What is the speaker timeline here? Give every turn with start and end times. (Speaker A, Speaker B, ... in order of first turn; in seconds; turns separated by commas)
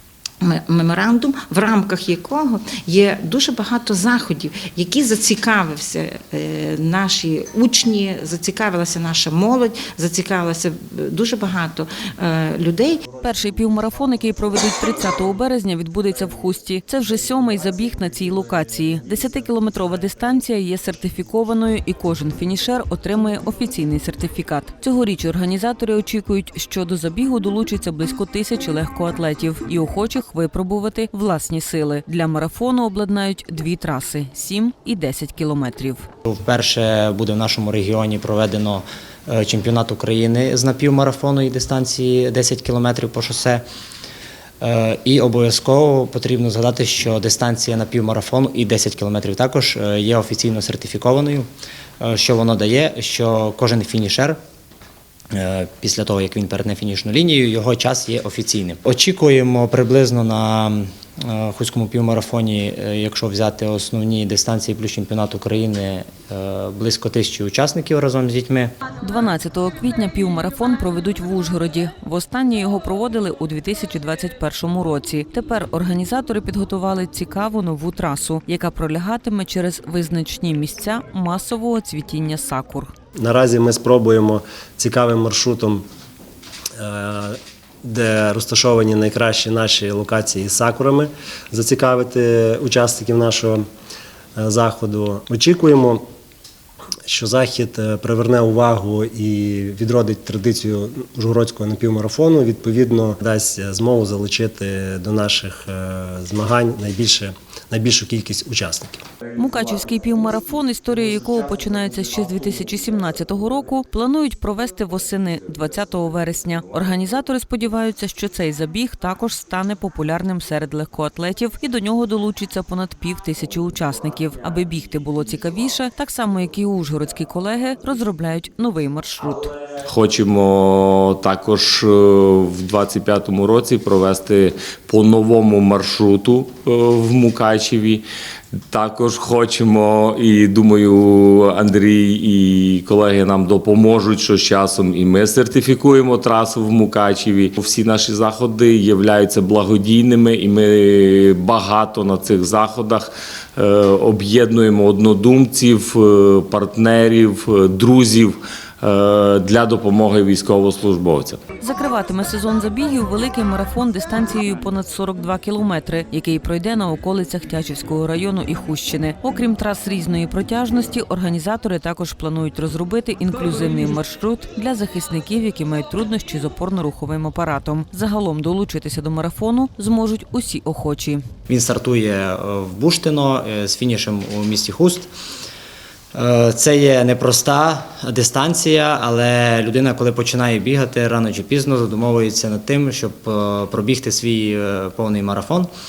Speaker A: 0.4-13.0, Speaker B: 13.2-36.1, Speaker C: 36.2-43.6, Speaker C: 44.6-51.5, Speaker C: 52.0-54.4, Speaker C: 55.3-68.7, Speaker B: 69.0-82.9, Speaker D: 83.2-85.8, Speaker D: 86.8-93.7, Speaker D: 94.4-96.0, Speaker D: 97.1-109.0, Speaker B: 109.4-129.5, Speaker E: 129.9-138.0, Speaker E: 138.7-161.4, Speaker B: 161.6-181.2, Speaker C: 181.5-185.1, Speaker C: 186.2-195.7